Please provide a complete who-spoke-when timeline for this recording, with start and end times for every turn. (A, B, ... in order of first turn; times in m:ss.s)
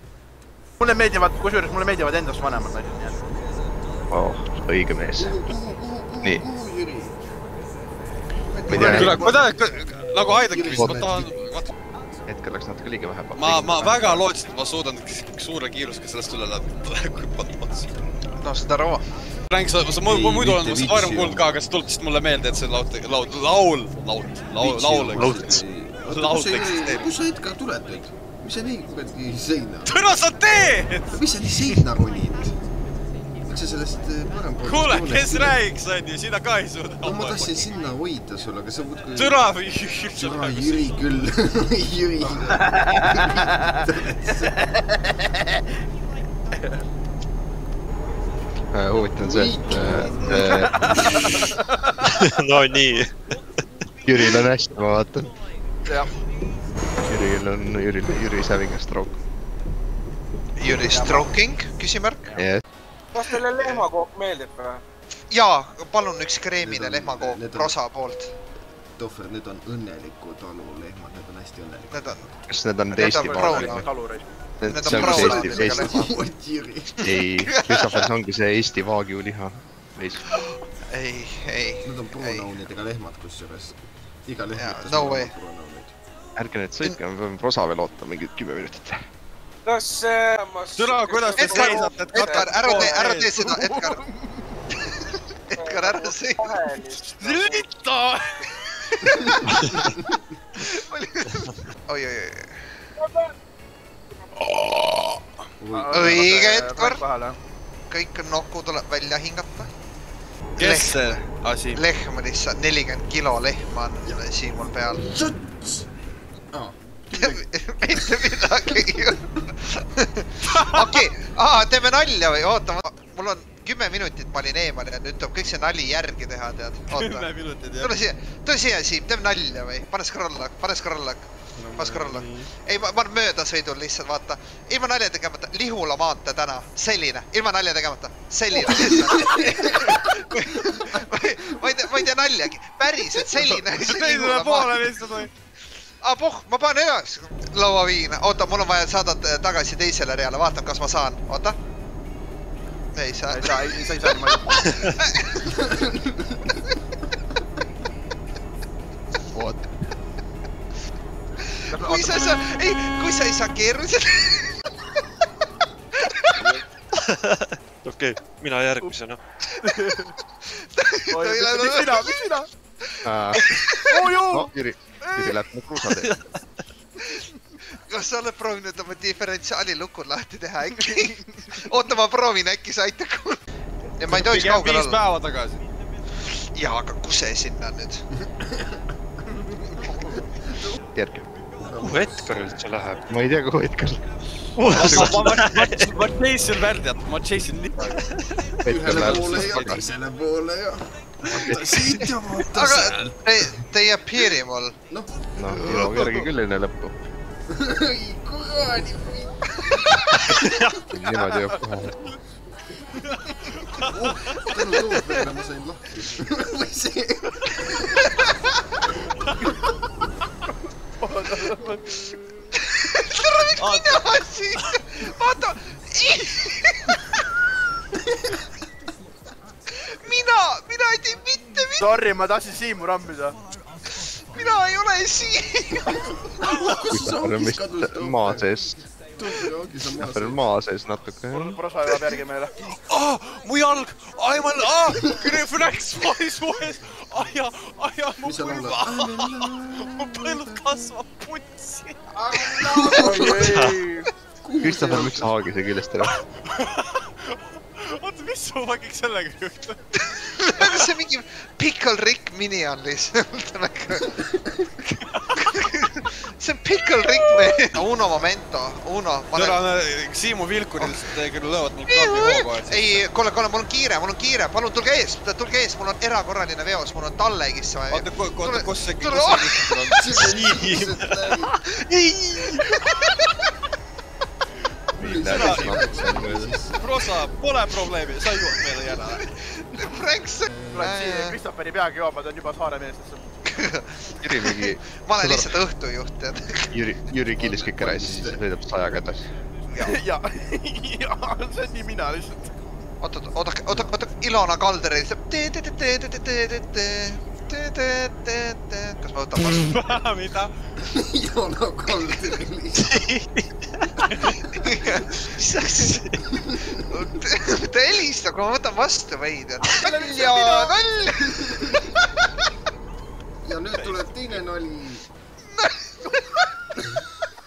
0:00.8-0:03.2 A
0:04.1-0:05.4 B
0:05.2-0:07.2 C
0:08.5-0:09.6 C
0:08.7-0:09.2 B
0:08.7-0:11.7 D
0:10.4-0:11.3 C
0:10.8-0:11.0 B
0:12.3-0:14.2 B
0:13.3-0:17.9 D
0:18.3-0:19.0 E
0:19.5-0:27.1 D
0:20.0-0:21.6 C
0:24.6-0:29.9 C
0:25.2-0:25.6 F
0:29.8-0:31.6 D
0:31.1-0:32.6 C
0:33.5-0:35.6 C
0:34.6-0:37.7 D
0:37.0-0:39.4 C
0:39.1-0:41.0 D
0:40.2-0:44.6 C
0:42.7-0:43.5 A
0:44.5-0:45.3 A
0:48.7-0:50.8 B
0:49.2-0:51.3 C
0:50.8-0:51.6 A
0:52.0-0:53.1 F
0:54.0-0:55.3 B
0:57.0-0:59.2 B
1:00.6-1:02.3 E
1:00.6-1:01.3 A
1:02.3-1:02.6 B
1:03.1-1:04.8 G
1:03.3-1:03.9 E
1:05.3-1:08.3 E
1:06.6-1:07.8 C
1:09.0-1:12.3 C
1:11.9-1:12.3 E
1:12.5-1:13.9 B
1:12.9-1:13.8 E
1:12.9-1:14.3 A
1:14.6-1:16.1 B
1:14.6-1:16.1 E
1:14.8-1:17.0 C
1:17.0-1:20.2 B
1:17.2-1:18.0 E
1:20.3-1:22.5 E
1:21.8-1:25.9 C
1:24.5-1:25.3 E
1:26.4-1:29.1 B
1:29.6-1:33.0 G
1:30.7-1:33.4 D
1:31.4-1:34.0 E
1:33.4-1:34.5 A
1:35.5-1:36.6 E
1:35.5-1:37.7 G
1:36.8-1:38.3 D
1:38.7-1:39.8 E
1:40.6-1:42.8 E
1:43.0-1:43.3 G
1:44.4-1:45.2 D
1:45.6-1:46.3 C
1:45.7-1:47.4 A
1:45.9-1:47.0 E
1:47.9-1:49.7 E
1:50.6-1:51.8 D
1:50.6-1:55.2 E
1:54.9-1:55.9 C
1:56.5-1:59.0 C
1:57.1-2:24.9 E
2:00.5-2:01.0 D
2:06.9-2:07.9 D
2:11.5-2:12.5 D
2:18.6-2:20.2 C
2:23.2-2:25.3 D
2:26.0-2:31.6 E
2:32.9-2:35.5 E
2:33.3-2:34.6 A
2:35.6-2:36.4 C
2:39.3-2:39.6 B
2:41.4-2:44.7 E
2:41.7-2:42.4 A
2:46.0-2:46.6 E
2:47.0-2:49.2 F
2:49.6-2:50.1 A
2:50.4-2:52.1 E
2:51.1-2:52.5 A
2:53.0-2:53.4 B
2:53.3-2:53.9 E
2:53.9-2:55.4 A
2:54.2-2:56.2 B
2:55.9-2:56.2 F
2:57.9-3:03.4 E
3:00.7-3:01.5 A
3:04.0-3:05.0 E
3:04.0-3:05.6 D
3:06.2-3:08.0 E
3:10.9-3:11.3 B
3:11.6-3:12.5 C
3:11.8-3:13.1 F
3:13.1-3:14.0 B
3:14.6-3:15.8 F
3:14.6-3:18.0 D
3:14.7-3:15.3 B
3:18.6-3:19.8 B
3:18.6-3:23.6 C
3:18.9-3:19.9 D
3:21.3-3:21.6 B
3:22.0-3:24.8 E
3:24.9-3:25.6 C
3:25.4-3:26.9 B
3:25.6-3:26.1 E
3:27.5-3:29.4 C
3:30.9-3:32.0 B
3:33.6-3:34.5 D
3:33.8-3:38.0 C
3:41.0-3:42.2 A
3:42.7-3:47.0 E
3:43.6-3:44.0 D
3:49.9-3:52.0 E
3:51.8-3:53.4 A
3:53.9-3:56.4 E
3:56.4-3:58.6 C
3:56.5-3:56.8 D
3:56.9-3:58.8 B
3:59.2-4:00.4 C
4:00.0-4:01.6 B
4:01.3-4:02.5 A
4:02.6-4:13.4 D
4:05.0-4:05.3 C
4:08.2-4:10.9 C
4:12.3-4:13.6 C
4:13.0-4:14.1 A
4:13.4-4:13.8 F
4:14.4-4:15.3 C
4:14.6-4:16.1 B
4:16.0-4:20.0 D
4:20.4-4:24.3 E
4:20.5-4:20.9 D
4:25.1-4:25.4 D
4:25.3-4:29.6 E
4:29.3-4:33.1 D
4:31.9-4:40.3 E
4:37.9-4:42.7 D
4:39.9-4:41.6 C
4:42.5-4:43.4 E
4:45.0-4:46.8 C
4:45.0-4:46.5 B
4:45.2-4:45.9 D
4:46.7-4:49.2 D
4:48.5-4:51.4 E
4:50.5-4:50.8 C
4:50.7-4:53.3 A
4:53.4-4:56.8 E
4:54.2-4:55.6 B
4:56.7-4:59.2 B
4:57.4-4:58.4 C
4:59.7-5:00.0 E
4:59.8-5:02.5 A
5:03.0-5:09.8 E
5:09.4-5:10.5 D
5:10.8-5:13.0 C
5:12.8-5:13.2 D
5:14.0-5:14.4 D
5:14.3-5:21.8 E
5:16.3-5:16.7 C
5:19.8-5:21.7 C
5:23.4-5:25.0 C
5:23.7-5:24.4 D
5:25.4-5:26.4 E